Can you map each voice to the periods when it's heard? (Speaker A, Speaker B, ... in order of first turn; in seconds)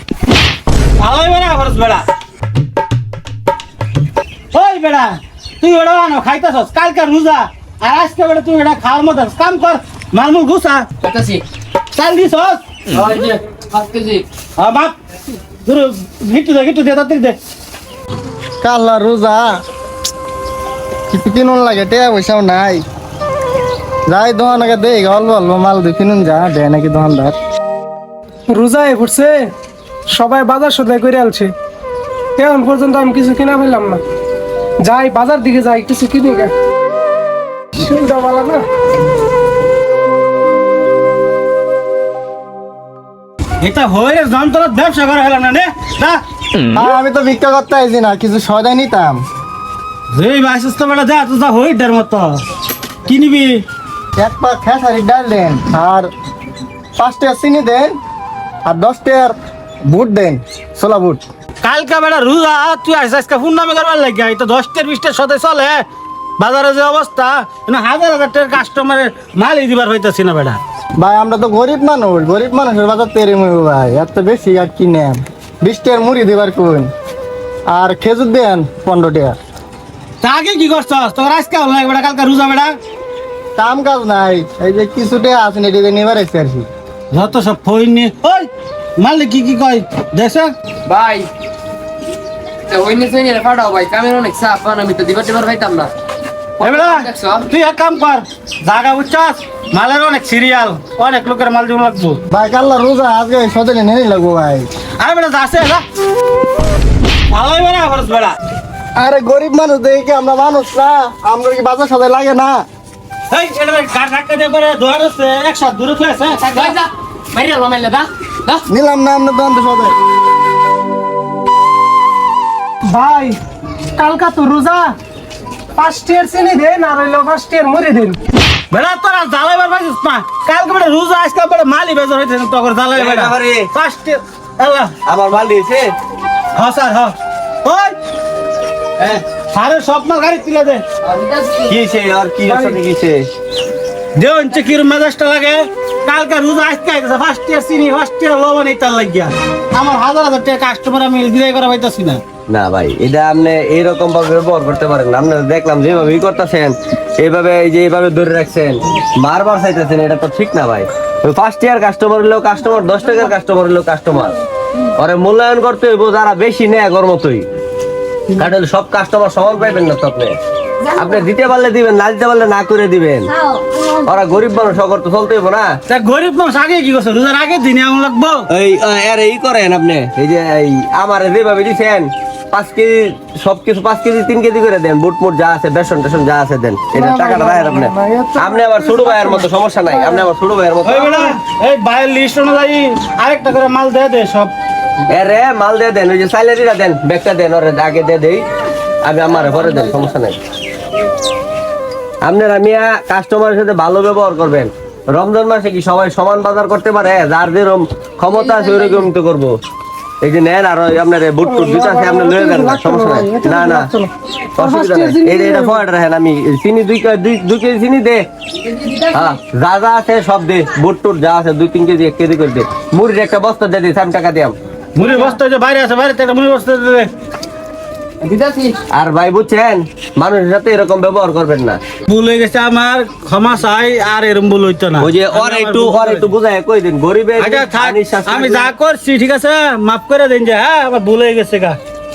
Speaker A: 1.0-2.0, 4.5-10.9, 11.9-12.6, 14.6-14.9, 15.6-17.4, 43.6-46.2, 50.1-52.4, 53.0-53.6, 61.6-65.8, 66.4-70.6, 80.2-82.7, 87.1-90.5, 96.6-102.2, 105.0-105.8, 107.3-108.3, 113.3-116.8, 128.7-134.9, 136.6-137.9, 139.0-140.8, 144.2-152.2, 175.9-178.4, 190.8-194.5, 224.9-227.1, 232.1-236.3, 237.4-241.8
Speaker B: 11.0-11.4, 12.9-14.2, 90.8-91.3, 92.7-95.9, 96.6-97.5, 116.6-118.6, 141.1-141.6, 228.2-228.8
Speaker C: 18.6-19.6, 21.1-22.8, 24.1-27.3, 46.7-49.2, 54.2-56.1, 57.0-57.9, 58.6-59.4, 59.9-61.2, 71.0-76.9, 77.7-79.4, 83.6-86.7, 102.3-104.7, 109.0-112.6, 118.7-119.9
Speaker D: 28.5-29.5, 30.1-31.5, 32.4-34.0, 34.8-36.5, 37.7-38.6, 122.9-123.4, 123.9-125.0, 125.8-128.2, 186.9-190.3, 211.4-215.8
Speaker E: 132.9-133.7, 135.1-135.9, 141.6-143.2, 152.5-164.4, 165.0-167.4, 168.3-170.4, 170.9-175.7, 178.5-191.3, 195.1-198.4, 199.0-200.4, 202.2-209.5, 210.2-213.9, 214.6-218.2, 218.9-224.5, 228.9-231.8, 235.0-238.7